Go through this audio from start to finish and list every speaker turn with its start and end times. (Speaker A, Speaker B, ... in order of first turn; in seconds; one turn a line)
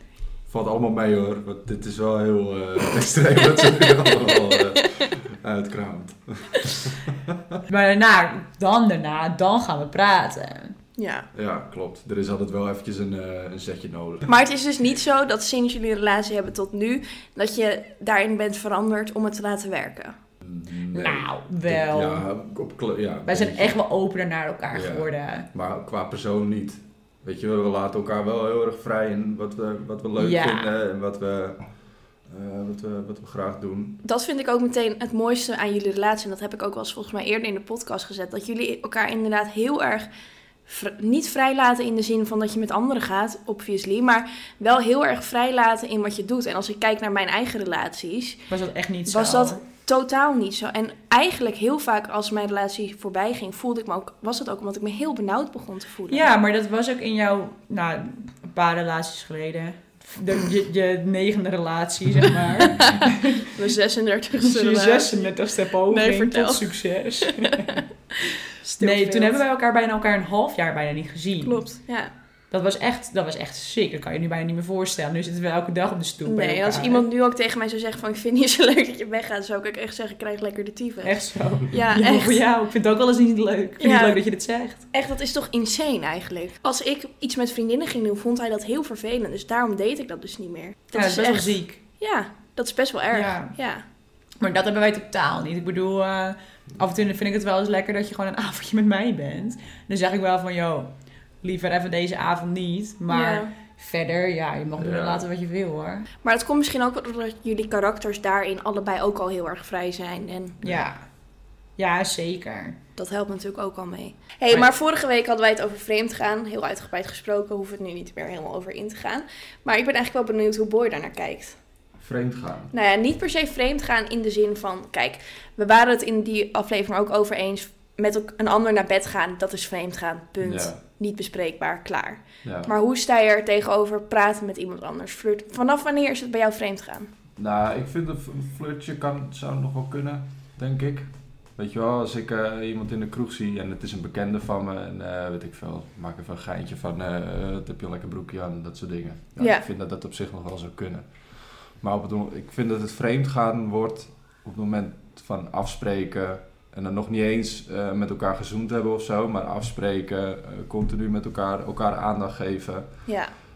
Speaker A: 0.5-7.6
Speaker B: 7.7-10.8
Speaker C: 11.0-11.3
Speaker A: 11.3-14.3
Speaker C: 14.3-20.2
Speaker A: 20.4-23.8
Speaker B: 20.9-22.3
Speaker B: 23.3-25.5
Speaker A: 24.7-31.6
Speaker B: 30.2-30.7
Speaker A: 32.3-34.0
Speaker C: 34.0-40.1
Speaker C: 40.7-48.5
Speaker B: 48.5-49.6
Speaker C: 49.1-56.3
Speaker B: 56.1-63.5
Speaker C: 62.7-67.8
Speaker B: 64.4-67.8
Speaker C: 68.6-69.4
Speaker B: 68.8-71.7
Speaker C: 71.4-72.1
Speaker B: 72.5-77.1
Speaker C: 76.3-82.4
Speaker B: 81.0-84.8
Speaker C: 83.8-84.2
Speaker C: 84.9-93.8
Speaker B: 90.9-91.8
Speaker B: 93.1-93.5
Speaker B: 94.4-100.9
Speaker B: 101.4-106.1
Speaker C: 103.1-103.5
Speaker A: 104.8-105.2
Speaker C: 106.2-110.6
Speaker B: 110.6-111.0
Speaker B: 111.8-112.8
Speaker C: 113.0-121.6
Speaker A: 122.0-122.7
Speaker C: 122.7-137.1
Speaker A: 130.4-130.8
Speaker A: 132.4-132.7
Speaker A: 137.4-162.9
Speaker C: 149.4-149.7
Speaker C: 163.1-163.3